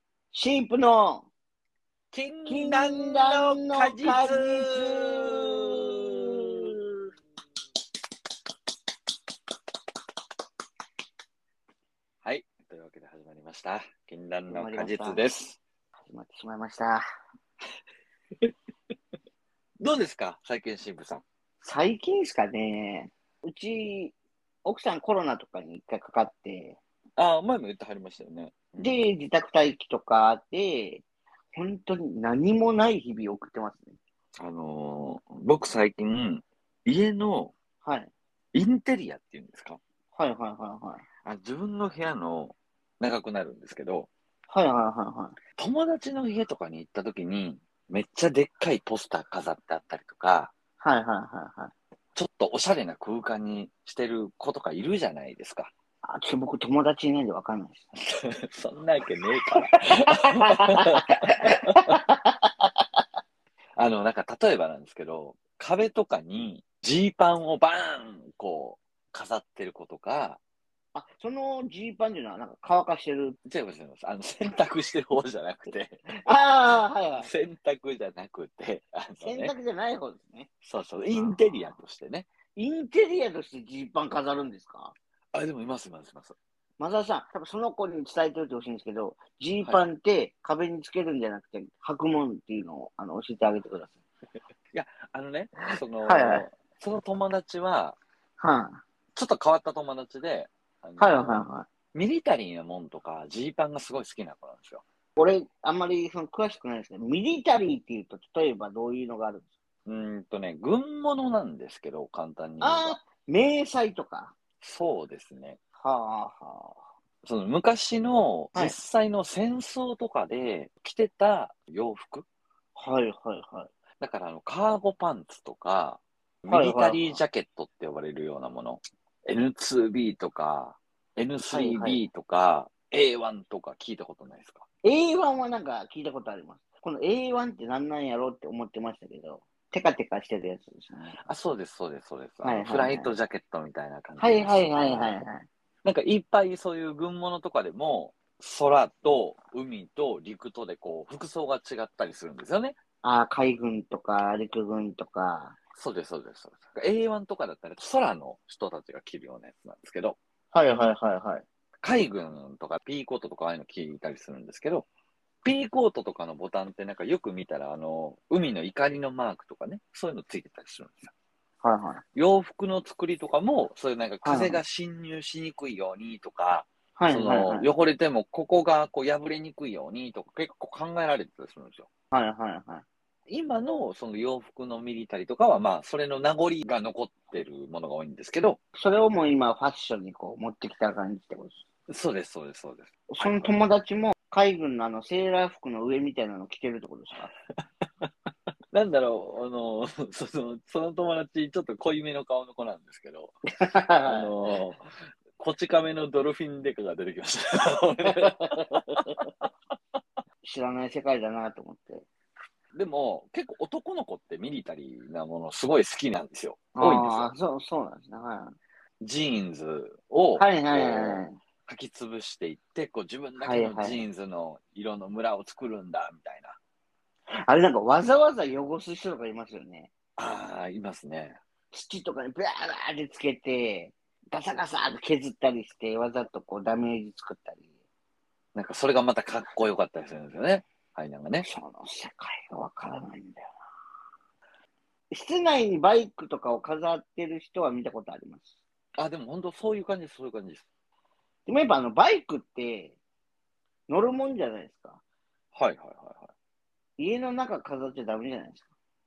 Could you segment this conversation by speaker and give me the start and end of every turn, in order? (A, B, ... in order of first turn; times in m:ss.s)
0:00.3-0:01.3 A
0:02.1-0:06.7 B
0:02.4-0:06.7 A
0:12.2-0:15.6 B
0:14.5-0:15.2 A
0:16.1-0:17.0 A
0:19.8-0:21.2 B
0:21.6-0:26.8 A
0:27.2-0:29.0 B
0:28.8-0:34.0 A
0:34.4-0:37.5 B
0:37.8-0:38.1 A
0:38.5-0:39.8 B
0:40.1-0:41.0 A
0:41.2-0:44.1 B
0:44.5-0:45.4 A
0:45.6-0:50.5 B
0:50.8-0:51.7 A
0:52.1-0:55.7 B
0:56.0-0:57.9 A
0:58.1-1:02.0 B
0:59.8-1:02.5 A
1:03.8-1:10.4 B
1:10.9-1:13.4 A
1:13.4-1:16.0 B
1:16.1-1:17.3 A
1:17.2-1:19.5 B
1:19.2-1:20.5 A
1:20.6-1:22.3 B
1:21.1-1:21.8 A
1:22.6-1:24.9 A
1:25.3-1:26.4 B
1:26.8-1:34.0 A
1:34.7-1:38.0 B
1:36.0-1:36.5 A
1:38.4-1:38.8 A
1:39.1-1:41.4 B
1:41.0-1:41.7 A
1:41.9-1:44.8 B
1:45.2-1:49.5 A
1:49.8-1:53.0 B
1:52.6-1:54.3 A
1:54.6-1:55.6 B
1:55.8-1:56.8 A
1:57.2-2:02.2 B
2:02.8-2:03.7 A
2:04.0-2:14.6 B
2:06.5-2:07.2 A
2:11.5-2:12.0 A
2:14.8-2:21.2 A
2:21.1-2:25.1 B
2:22.4-2:23.1 A
2:24.2-2:25.5 A
2:25.8-2:32.8 B
2:33.0-2:35.6 A
2:35.8-2:40.2 B
2:40.5-2:41.4 A
2:41.8-2:44.9 B
2:45.4-2:51.1 B
2:51.6-2:52.0 A
2:52.1-3:01.9 B
2:54.2-2:54.6 A
2:57.0-2:57.7 A
3:02.1-3:02.8 A
3:03.3-3:08.6 B
3:08.7-3:11.6 A
3:11.9-3:13.5 B
3:13.1-3:17.3 A
3:18.7-3:23.3 B
3:23.6-3:24.3 A
3:24.0-3:29.4 B
3:28.0-3:29.2 A
3:30.4-3:32.0 A
3:32.7-3:37.3 B
3:36.8-3:38.6 A
3:39.0-3:46.6 B
3:40.4-3:41.4 A
3:43.4-3:44.0 A
3:47.5-3:49.9 A
3:50.2-3:51.4 B
3:51.7-3:57.6 A
3:58.5-4:01.5 B
4:01.4-4:03.5 A
4:05.1-4:08.5 A
4:09.0-4:10.6 B
4:11.4-4:13.0 A
4:13.9-4:15.0 A
4:15.5-4:16.3 B
4:17.0-4:18.7 A